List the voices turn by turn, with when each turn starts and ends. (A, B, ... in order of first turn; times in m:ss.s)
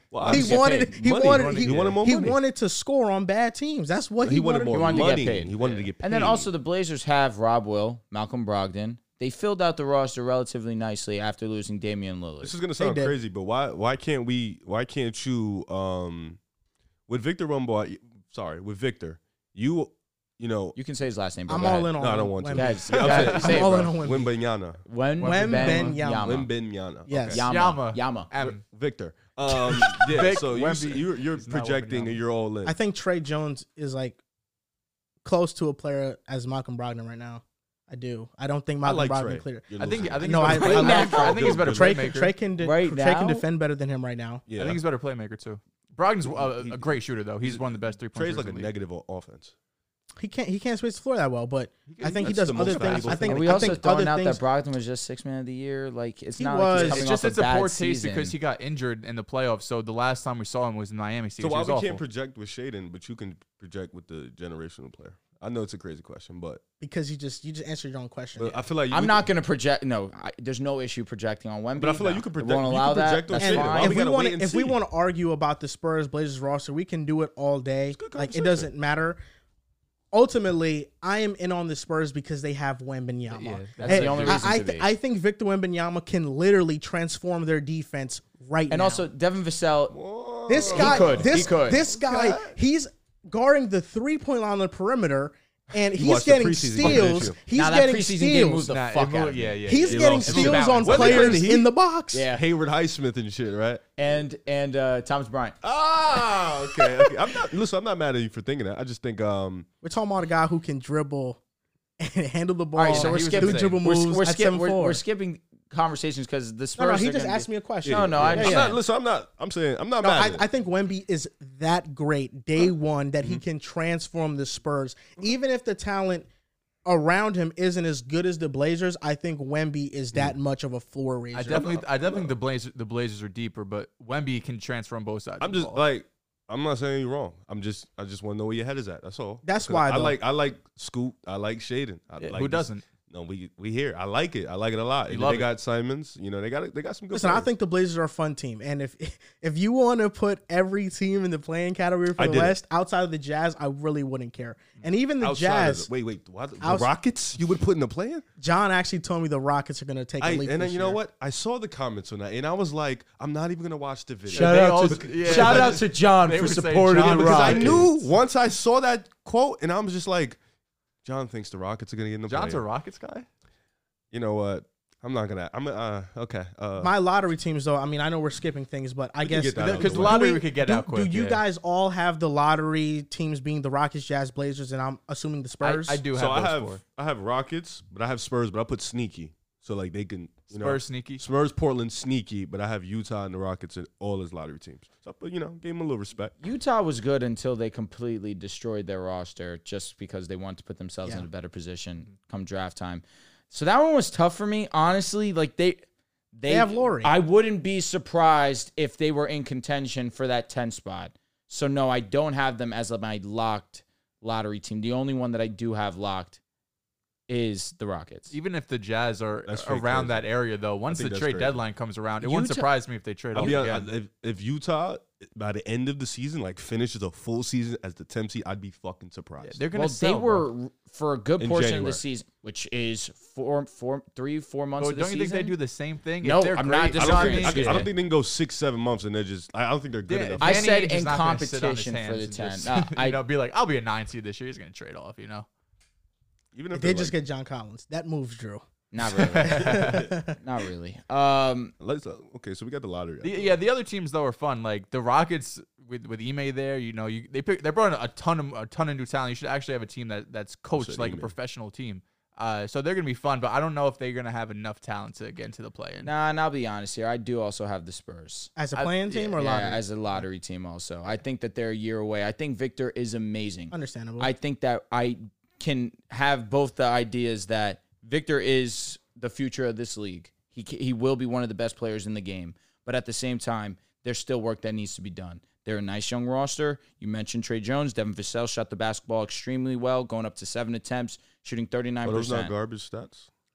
0:00.1-0:02.4 A
0:00.2-0:01.0 B
0:00.2-0:05.2 C
0:01.2-0:02.0 D
0:04.2-0:06.5 A
0:04.7-0:12.5 B
0:05.6-0:05.9 D
0:12.4-0:16.4 A
0:12.8-0:13.2 C
0:17.1-0:20.8 A
0:20.8-0:21.9 B
0:21.5-0:24.3 C
0:22.0-0:24.8 A
0:22.5-0:23.9 B
0:23.0-0:23.6 D
0:24.8-0:26.5 B
0:25.2-0:26.0 D
0:25.2-0:26.4 C
0:26.1-0:27.4 A
0:27.1-0:27.4 C
0:27.2-0:28.3 B
0:27.4-0:28.6 D
0:28.4-0:32.7 A
0:29.5-0:32.2 D
0:32.6-0:34.2 C
0:35.2-0:44.4 C
0:38.8-0:42.1 A
0:39.8-0:42.4 D
0:40.5-0:41.5 B
0:42.6-0:43.4 B
0:44.5-0:44.8 A
0:44.6-0:48.7 D
0:46.2-0:49.5 A
0:50.2-0:54.4 C
0:51.9-0:53.8 A
0:52.2-0:53.4 D
0:53.3-0:58.3 B
0:56.4-0:57.1 C
0:56.7-1:02.0 D
1:01.4-1:06.6 A
1:06.8-1:08.6 C
1:08.4-1:09.3 A
1:08.9-1:14.0 B
1:11.8-1:14.8 A
1:13.4-1:19.2 C
1:17.9-1:18.7 A
1:20.1-1:29.1 C
1:23.3-1:24.5 D
1:23.8-1:24.9 B
1:28.7-1:30.0 B
1:29.9-1:32.5 A
1:30.5-1:38.6 C
1:30.6-1:31.8 B
1:30.7-1:31.1 D
1:35.9-1:37.4 A
1:36.8-1:39.8 B
1:38.6-1:41.4 D
1:39.6-1:42.2 C
1:39.9-1:41.7 A
1:42.1-1:42.4 B
1:42.3-1:43.8 A
1:44.0-1:45.6 B
1:45.6-1:49.7 A
1:46.4-1:47.1 B
1:49.8-1:51.4 C
1:52.0-1:55.0 C
1:52.8-1:58.8 B
1:52.8-1:53.8 D
1:56.8-1:58.7 C
1:57.8-2:00.4 A
2:00.0-2:06.3 C
2:06.8-2:11.7 C
2:11.3-2:15.8 D
2:11.5-2:12.3 A
2:15.4-2:27.5 A
2:19.4-2:20.2 C
2:22.2-2:22.8 D
2:25.1-2:25.5 D
2:27.1-2:35.9 C
2:32.2-2:32.6 A
2:35.2-2:38.2 A
2:36.6-2:36.9 C
2:38.4-2:41.0 C
2:40.2-2:45.8 A
2:44.3-2:47.9 B
2:44.3-2:48.1 D
2:47.0-2:50.4 A
2:51.0-2:52.6 A
2:52.3-2:53.3 D
2:54.1-2:56.9 A
2:56.8-3:06.0 C
2:59.2-3:00.3 A
2:59.6-3:01.4 D
3:05.6-3:06.8 D
3:06.1-3:16.3 A
3:10.5-3:11.2 D
3:16.4-3:36.4 B
3:26.5-3:27.1 C
3:37.3-3:38.3 B
3:38.3-3:43.9 D
3:39.4-3:40.2 A
3:40.9-3:41.6 A
3:42.2-3:42.7 B
3:43.3-3:49.6 A
3:43.4-3:43.6 B
3:49.4-3:50.5 D
3:49.7-3:55.6 B
3:51.4-3:52.0 A
3:54.8-3:57.9 D
3:56.2-3:57.9 B
3:57.0-4:00.7 A
4:00.0-4:05.5 D
4:00.4-4:03.2 B
4:06.5-4:07.1 A
4:06.7-4:08.6 C
4:08.9-4:11.7 B
4:09.2-4:10.0 D
4:09.3-4:10.4 C
4:11.8-4:13.6 A
4:13.2-4:26.1 D
4:20.7-4:21.3 A
4:26.0-4:28.5 B
4:28.6-4:29.8 C
4:28.7-4:29.4 D
4:29.4-4:52.5 B
4:33.7-4:34.3 C
4:52.0-4:53.3 A